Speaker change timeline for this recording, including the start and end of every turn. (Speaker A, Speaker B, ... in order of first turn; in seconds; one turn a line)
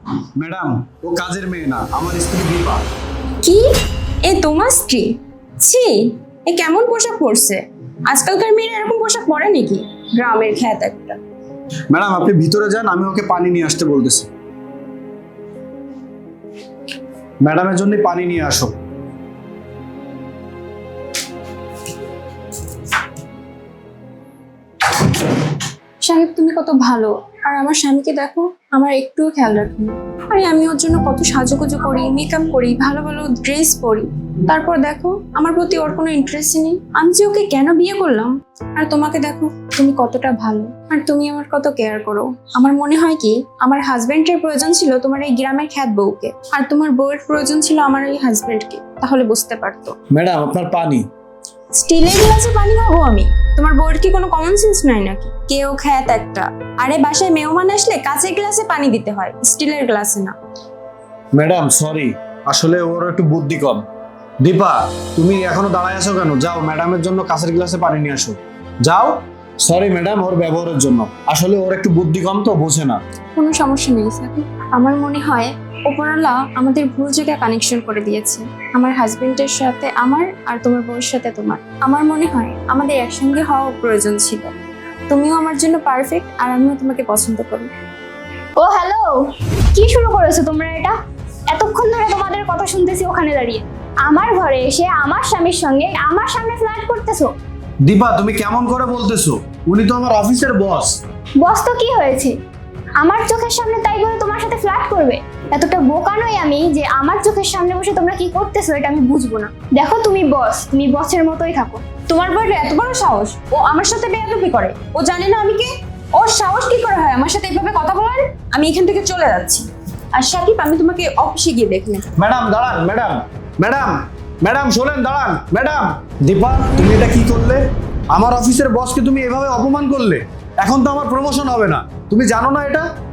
Speaker A: 0.4-2.8
Speaker B: 3.4-3.7
Speaker B: 4.2-11.2
Speaker A: 11.9-14.3
Speaker A: 17.4-18.7
Speaker B: 26.0-50.0
Speaker A: 50.1-51.1
Speaker B: 51.7-60.4
Speaker A: 61.3-63.8
Speaker A: 64.4-73.0
Speaker B: 73.4-84.5
Speaker B: 85.1-87.7
Speaker C: 88.6-91.0
Speaker C: 91.5-97.3
Speaker A: 97.8-101.0
Speaker C: 101.4-102.4
Speaker C: 103.0-111.8
Speaker B: 112.1-122.0
Speaker A: 122.2-132.9